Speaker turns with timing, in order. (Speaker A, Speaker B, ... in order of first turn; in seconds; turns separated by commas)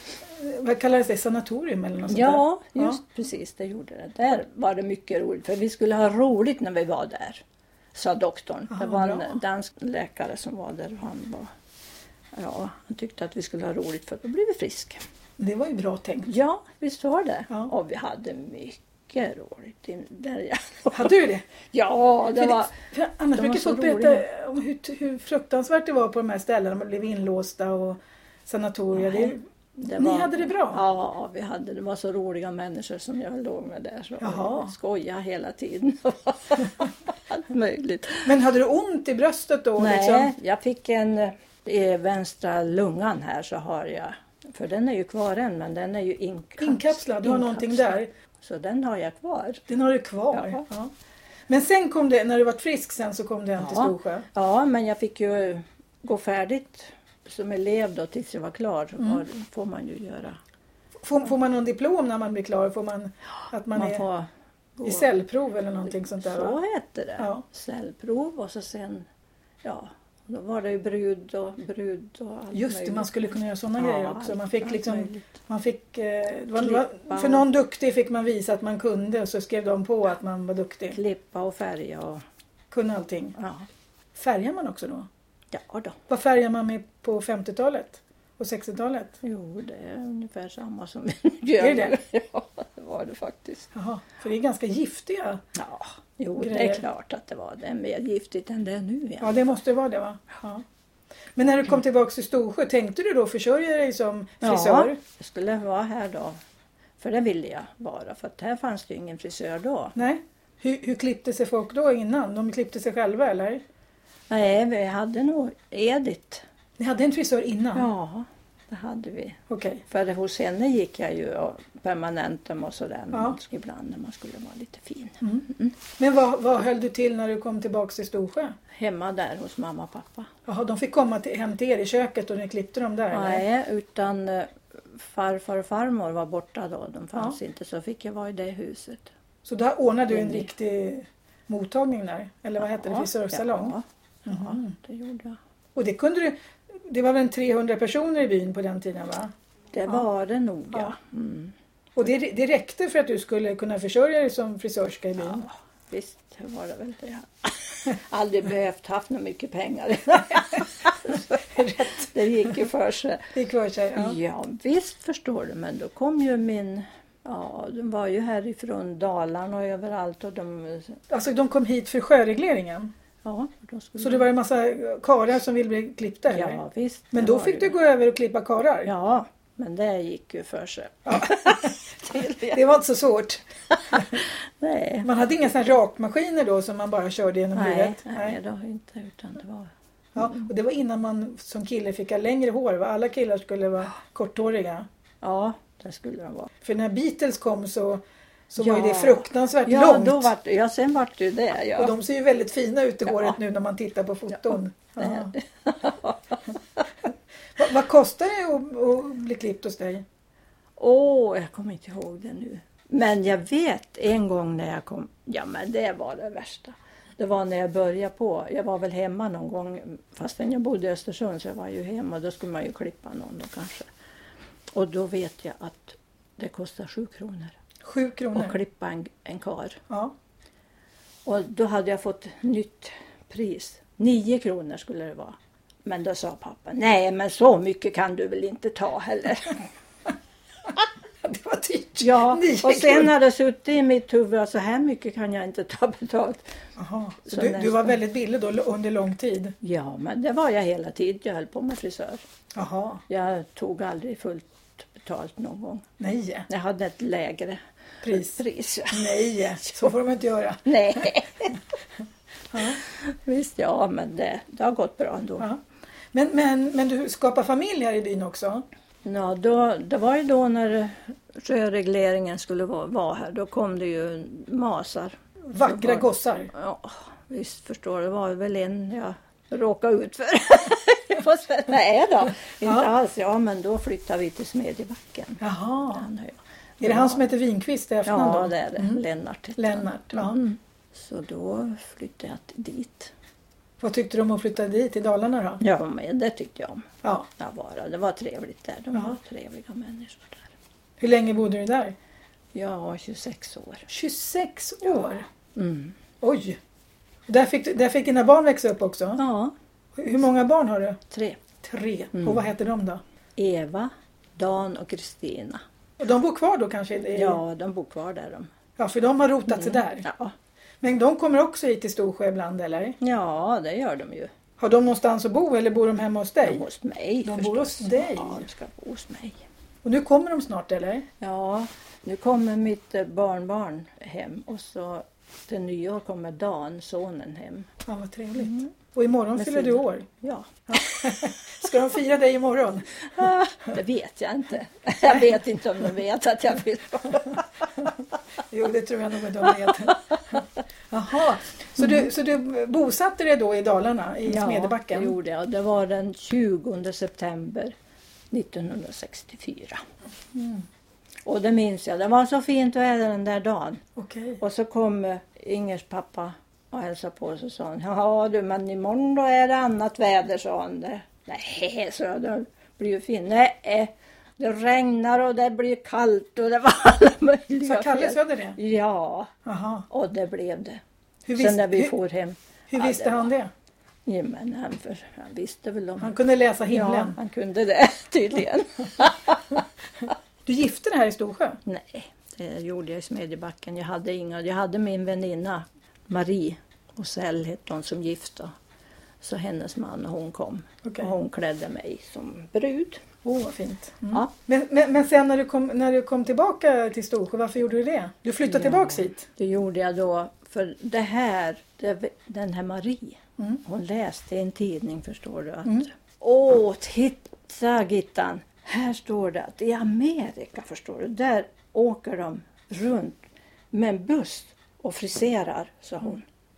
Speaker A: 0.2-3.0, Speaker B: 2.1-7.4, Speaker B: 7.9-11.5, Speaker A: 8.7-9.4, Speaker B: 12.3-15.0, Speaker A: 15.4-16.3, Speaker B: 16.3-21.2, Speaker A: 20.9-21.4, Speaker B: 21.7-22.7, Speaker A: 22.3-29.4, Speaker B: 23.3-24.3, Speaker B: 29.0-38.3, Speaker A: 29.9-30.8, Speaker A: 34.2-34.7, Speaker A: 38.2-40.3, Speaker B: 39.8-49.6, Speaker A: 46.6-48.1, Speaker A: 49.7-50.9, Speaker B: 50.3-50.6, Speaker A: 51.5-54.3, Speaker B: 53.6-60.4, Speaker A: 61.0-64.0, Speaker B: 63.7-65.1, Speaker A: 64.8-66.6, Speaker B: 66.1-69.1, Speaker A: 67.2-67.5, Speaker B: 69.6-73.1, Speaker A: 72.5-81.0, Speaker B: 73.8-75.3, Speaker B: 76.6-77.5, Speaker B: 80.9-82.2, Speaker A: 82.7-83.4, Speaker B: 83.4-83.7, Speaker A: 84.2-85.1, Speaker B: 85.5-86.0, Speaker A: 86.1-89.2, Speaker B: 89.2-93.7, Speaker A: 91.6-92.0, Speaker A: 93.7-95.4, Speaker B: 95.5-99.4, Speaker A: 96.4-96.8, Speaker A: 99.2-100.6, Speaker A: 101.4-105.0, Speaker B: 104.4-106.4, Speaker B: 107.0-110.0, Speaker A: 110.0-113.6, Speaker B: 114.3-116.4, Speaker A: 116.8-117.9, Speaker B: 117.8-125.7, Speaker A: 119.5-119.8, Speaker A: 123.1-123.4, Speaker A: 125.2-128.6, Speaker B: 128.7-130.3, Speaker A: 130.5-133.4, Speaker B: 133.1-139.1, Speaker A: 139.4-143.8, Speaker B: 140.1-140.5, Speaker B: 142.6-145.4, Speaker A: 144.3-144.8, Speaker A: 145.8-149.3, Speaker B: 149.7-151.5, Speaker A: 152.0-155.5, Speaker B: 155.2-163.3, Speaker A: 161.6-162.1, Speaker A: 163.3-164.2, Speaker B: 163.9-171.0, Speaker A: 171.1-172.9, Speaker B: 173.2-174.3, Speaker A: 174.0-176.6, Speaker B: 176.3-177.8, Speaker A: 177.1-178.9, Speaker B: 178.8-182.7, Speaker A: 181.1-184.2, Speaker B: 183.7-185.1, Speaker A: 185.0-188.4, Speaker B: 187.5-190.4, Speaker A: 190.2-194.9, Speaker B: 195.2-196.5, Speaker A: 196.6-200.3, Speaker B: 198.6-202.0, Speaker A: 201.8-205.3, Speaker B: 204.5-206.8, Speaker A: 207.6-210.0, Speaker B: 210.8-223.9, Speaker B: 224.7-227.6, Speaker A: 227.8-228.6, Speaker B: 228.3-229.8, Speaker B: 231.2-239.7, Speaker A: 241.2-243.1, Speaker B: 242.0-246.5, Speaker A: 246.8-249.6, Speaker B: 247.2-248.0, Speaker B: 249.6-252.2, Speaker A: 252.6-253.0, Speaker B: 253.1-255.9, Speaker A: 256.0-256.5, Speaker B: 256.5-259.2, Speaker A: 258.0-258.4, Speaker A: 258.9-261.1, Speaker B: 260.6-261.6, Speaker A: 262.5-262.8, Speaker B: 262.6-265.5, Speaker A: 266.1-268.6, Speaker B: 269.0-287.2, Speaker A: 275.5-276.5, Speaker A: 282.6-282.9, Speaker A: 285.4-286.1, Speaker A: 286.8-289.0, Speaker B: 288.1-293.1, Speaker A: 289.6-290.4, Speaker A: 293.8-295.6, Speaker B: 295.6-300.5, Speaker A: 297.0-297.3, Speaker A: 301.0-302.0, Speaker B: 302.5-303.9, Speaker A: 303.9-305.3, Speaker B: 305.6-306.0, Speaker A: 306.2-306.6, Speaker A: 307.3-309.2, Speaker B: 309.2-309.5, Speaker A: 310.0-311.0, Speaker B: 311.1-311.4, Speaker A: 311.6-313.0, Speaker B: 312.1-312.4, Speaker B: 313.4-315.6, Speaker A: 316.0-317.4, Speaker B: 317.1-318.5, Speaker A: 318.8-320.1, Speaker B: 319.5-320.3, Speaker A: 320.8-323.0, Speaker B: 323.0-324.3, Speaker A: 324.6-326.6, Speaker B: 326.4-329.4, Speaker A: 327.2-328.4, Speaker A: 329.8-331.1, Speaker B: 331.2-337.7, Speaker A: 337.9-340.1, Speaker B: 339.4-341.4, Speaker A: 340.7-343.1, Speaker B: 343.1-347.9, Speaker A: 348.5-355.1, Speaker B: 349.5-349.9, Speaker B: 354.3-357.7, Speaker B: 358.3-359.8, Speaker A: 360.4-360.6, Speaker B: 361.2-363.8, Speaker A: 364.0-364.4, Speaker B: 364.4-379.3, Speaker A: 377.6-378.6, Speaker A: 379.4-379.9, Speaker B: 379.9-380.8, Speaker A: 381.3-381.9, Speaker B: 381.4-383.3, Speaker A: 382.7-383.5, Speaker B: 384.1-386.1, Speaker A: 386.0-387.2, Speaker B: 386.7-389.6, Speaker A: 390.5-391.6, Speaker B: 391.7-398.5, Speaker B: 399.2-403.0, Speaker A: 400.8-401.1, Speaker A: 403.2-409.3, Speaker B: 408.5-423.2, Speaker B: 423.7-426.3